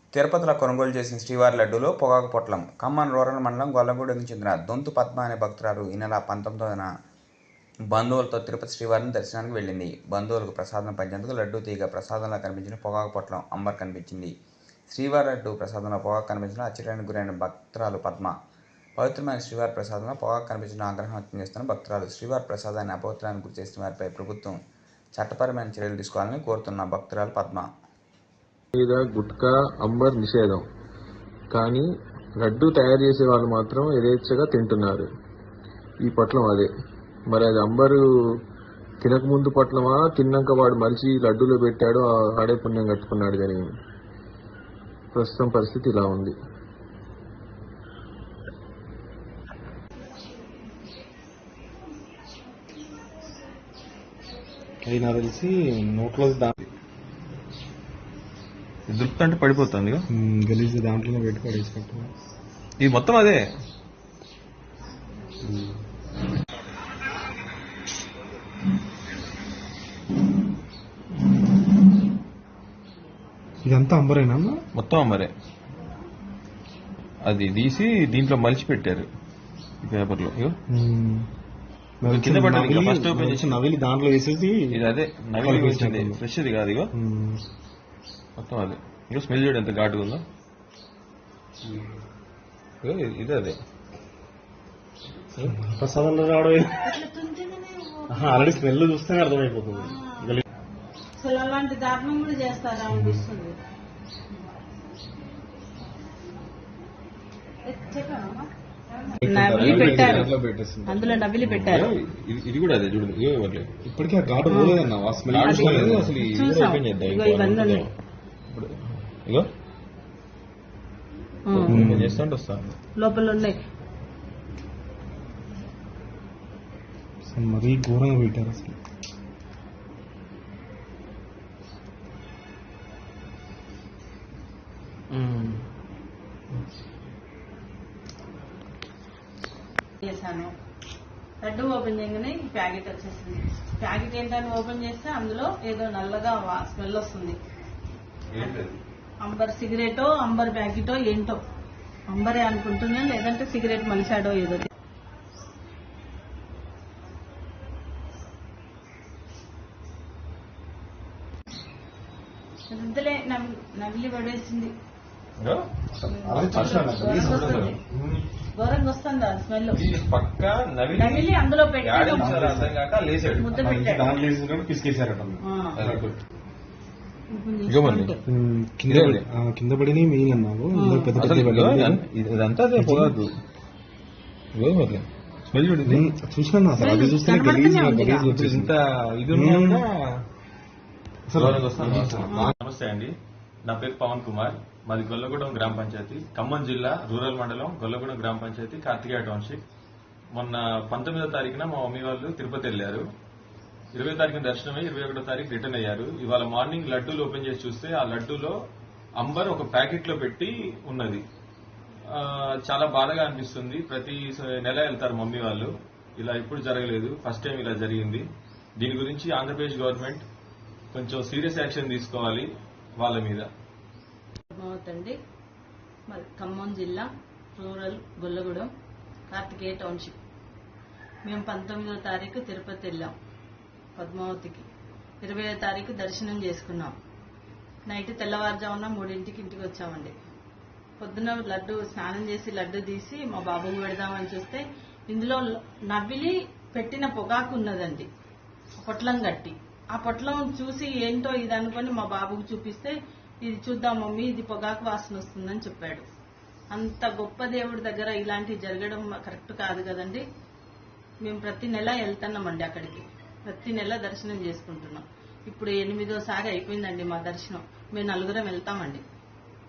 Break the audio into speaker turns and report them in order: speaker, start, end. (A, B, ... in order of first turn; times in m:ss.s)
0:00.1-0:06.9 A
0:07.9-0:14.3 A
0:14.9-0:18.3 A
0:19.0-0:24.6 A
0:25.2-0:27.7 A
0:28.8-0:30.6 B
0:31.5-0:31.9 B
0:32.4-0:35.1 B
0:36.0-0:36.7 B
0:37.3-0:38.0 B
0:39.0-0:43.7 B
0:45.1-0:46.3 B
0:54.8-0:56.5 C
0:58.9-1:00.0 D
1:00.1-1:02.1 C
1:02.8-1:03.4 D
1:13.7-1:14.6 C
1:14.8-1:15.3 D
1:17.3-1:19.1 D
1:19.8-1:20.6 D
1:20.7-1:21.3 C
1:22.0-1:24.8 C
1:22.0-1:23.6 D
1:24.7-1:26.9 D
1:25.4-1:26.2 C
1:26.9-1:27.4 C
1:28.4-1:30.2 D
1:32.8-1:33.6 D
1:35.4-1:36.8 C
1:36.8-1:38.6 E
1:38.1-1:40.4 C
1:39.7-1:40.4 E
1:41.2-1:43.6 E
1:47.7-1:48.5 E
1:49.2-1:51.1 C
1:49.2-1:50.3 E
1:49.6-1:50.3 D
1:50.8-1:51.9 E
1:51.4-1:53.7 D
1:53.8-1:56.2 C
1:54.5-1:54.9 E
1:55.3-1:57.9 D
1:55.4-1:57.9 E
2:01.5-2:01.9 E
2:01.6-2:02.8 D
2:01.7-2:02.2 C
2:03.0-2:03.6 E
2:07.3-2:08.8 C
2:15.1-2:15.6 D
2:20.0-2:20.5 E
2:21.4-2:27.4 E
2:28.3-2:28.8 D
2:29.2-2:31.4 E
2:32.1-2:34.7 E
2:42.7-2:44.7 E
2:46.0-2:48.2 C
2:46.1-2:47.8 E
2:46.4-2:47.7 D
2:48.6-2:49.8 E
2:49.8-2:53.5 D
2:50.9-2:52.5 E
2:52.2-2:52.8 C
2:53.4-2:54.2 E
2:53.6-2:56.0 C
2:55.4-2:55.8 E
2:55.8-2:56.2 D
2:57.3-2:58.2 E
2:57.7-2:58.1 D
2:58.3-3:02.0 C
2:58.9-2:59.2 D
3:00.7-3:01.2 E
3:01.2-3:03.3 D
3:02.8-3:03.2 C
3:04.6-3:06.0 D
3:05.8-3:08.7 C
3:06.8-3:08.4 E
3:08.3-3:09.9 D
3:09.3-3:09.9 C
3:11.3-3:12.5 C
3:11.3-3:13.1 D
3:12.3-3:12.5 E
3:13.7-3:19.6 D
3:20.3-3:23.0 D
3:24.0-3:28.6 D
3:29.2-3:31.2 D
3:32.1-3:38.3 D
3:38.8-3:40.2 D
3:40.9-3:42.5 D
3:43.0-3:43.5 D
3:44.5-3:45.2 E
3:46.1-3:48.7 E
3:49.3-3:50.2 E
3:51.2-3:53.1 E
3:54.0-3:54.6 E
3:55.2-3:57.0 E
3:57.9-4:00.1 E
4:01.0-4:08.1 E
4:08.8-4:16.0 E
4:16.7-4:20.2 E
4:21.2-4:29.0 E